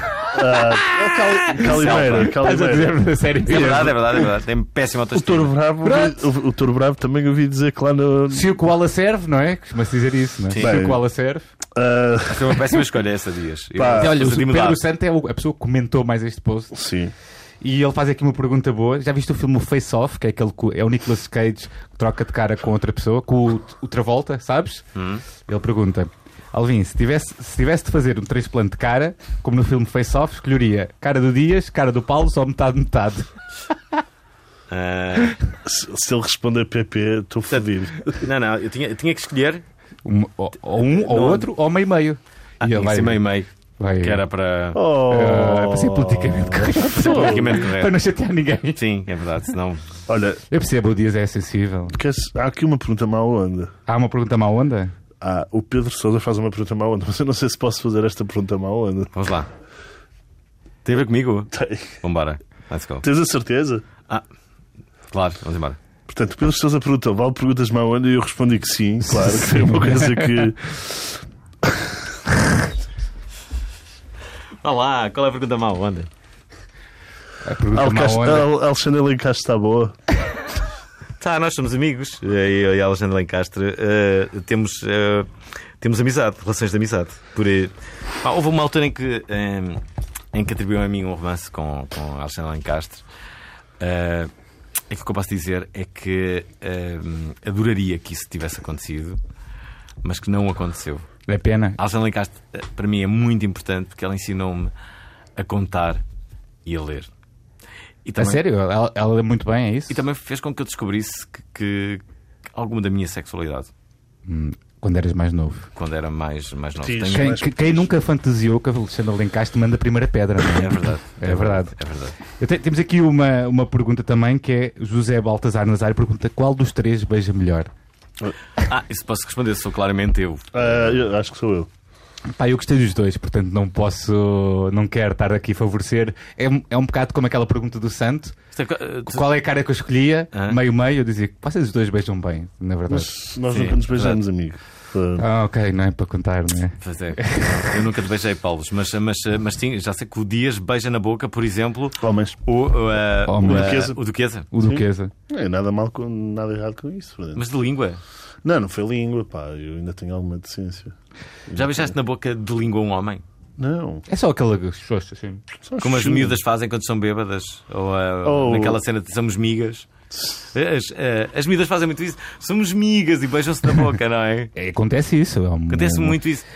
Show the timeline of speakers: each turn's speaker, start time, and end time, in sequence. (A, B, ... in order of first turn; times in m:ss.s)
0:00.3-0:04.3 A
0:00.8-0:03.9 B
0:01.5-0:02.3 C
0:03.4-0:05.5 C
0:05.1-0:08.5 A
0:05.8-0:06.3 B
0:08.3-0:11.4 B
0:10.6-0:11.0 A
0:11.7-0:12.6 A
0:12.3-0:14.8 C
0:13.7-0:14.2 A
0:13.9-0:16.8 B
0:16.7-0:17.1 A
0:17.6-0:24.8 B
0:24.9-0:25.2 C
0:25.5-0:33.3 B
0:34.7-0:35.4 C
0:35.6-0:38.2 A
0:37.5-0:39.6 C
0:40.0-0:43.2 B
0:40.9-0:41.5 C
0:42.6-0:44.8 C
0:43.8-0:44.2 B
0:44.7-0:47.6 A
0:45.1-0:48.8 B
0:47.0-0:48.0 C
0:48.7-0:49.9 C
0:50.1-0:50.4 A
0:50.5-0:52.0 B
0:51.9-0:53.7 A
0:53.9-0:54.9 B
0:55.2-0:59.1 A
0:59.1-0:59.5 C
1:00.8-1:03.0 C
1:01.5-1:02.0 A
1:03.0-1:03.8 A
1:05.1-1:05.8 C
1:06.1-1:11.9 A
1:09.0-1:10.5 B
1:14.6-1:16.1 C
1:17.4-1:18.5 B
1:17.7-1:20.0 A
1:21.2-1:25.3 C
1:25.8-1:29.8 C
1:30.3-1:33.0 C
1:33.8-1:34.3 C
1:34.9-1:39.2 C
1:40.0-1:41.1 C
1:41.3-1:41.8 B
1:41.8-1:44.7 C
1:45.4-1:46.0 C
1:46.6-1:47.1 C
1:48.0-1:48.4 C
1:48.2-1:50.0 B
1:49.9-1:52.0 C
1:52.5-1:53.7 C
1:54.3-1:55.7 B
1:55.8-1:57.3 C
1:56.8-1:57.9 A
1:57.1-2:01.7 B
2:00.5-2:02.2 C
2:02.4-2:07.7 B
2:08.6-2:10.5 C
2:10.5-2:11.7 A
2:12.3-2:18.3 B
2:18.5-2:19.2 C
2:19.1-2:23.1 B
2:20.3-2:20.6 C
2:22.9-2:25.2 A
2:23.5-2:24.2 C
2:25.2-2:27.8 B
2:26.8-2:34.5 C
2:32.0-2:32.4 A
2:33.2-2:33.8 B
2:33.4-2:34.0 A
2:34.5-2:35.1 B
2:34.6-2:37.4 A
2:37.3-2:38.0 C
2:38.4-2:40.9 A
2:41.5-2:41.9 A
2:41.5-2:43.2 C
2:43.6-2:44.0 A
2:44.1-2:45.4 B
2:45.6-2:46.4 A
2:45.8-2:49.9 C
2:48.2-2:48.8 A
2:50.5-2:54.5 C
2:54.5-2:56.2 B
2:55.7-2:56.4 C